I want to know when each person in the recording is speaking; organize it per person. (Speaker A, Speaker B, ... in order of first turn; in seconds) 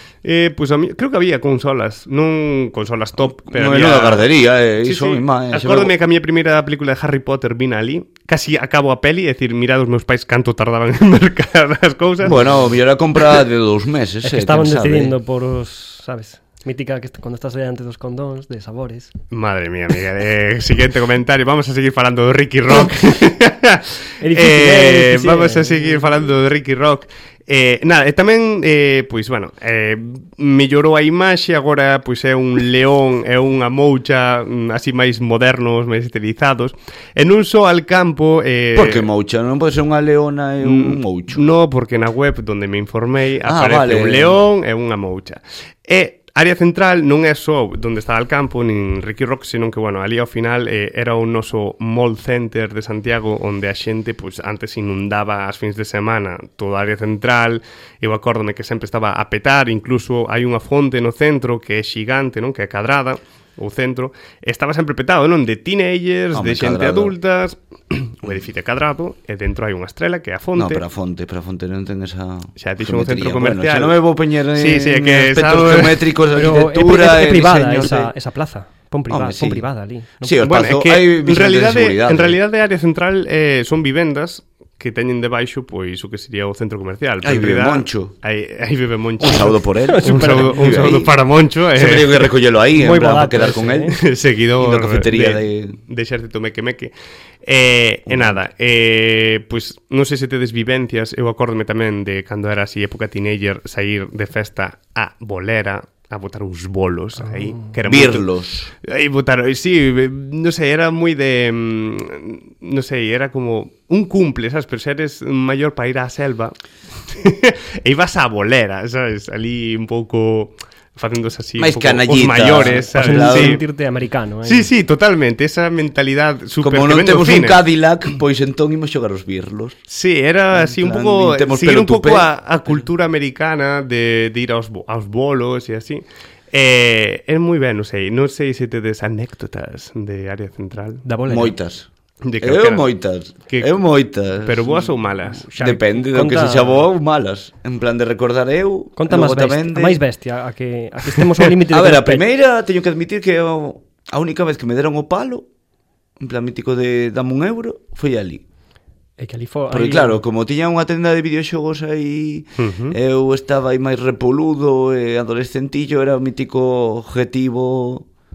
Speaker A: 0.2-4.3, 4.8-12.4, 19.3-39.1, 40.6-70.8, 72.6-74.0, 74.5-76.0, 80.4-92.3, 93.9-96.9, 97.4-108.3, 108.8-116.5, 117.1-123.6, 124.5-127.6, 129.9-141.0, 142.2-142.9, 143.5-143.8, 144.4-145.5, 162.6-163.0
Speaker B: 3.5-5.9, 12.2-15.2, 38.7-41.4, 43.4-44.4, 66.3-67.2, 70.6-78.1, 79.1-79.7, 80.2-82.4, 87.2-88.1, 89.2-91.1, 91.8-94.0, 94.6-95.8, 98.1-98.4, 107.8-108.7, 121.6-123.6, 126.6-129.8, 130.5-132.8, 141.3-141.9, 142.4-144.9, 145.6-150.0, 151.6-155.5, 156.2-158.4, 159.7-168.1
Speaker C: 14.2-19.1, 24.2-26.2, 76.3-80.4, 89.9-91.0, 92.8-94.0, 122.9-124.7, 141.0-141.6, 145.4-146.8, 149.0-152.2, 159.2-160.2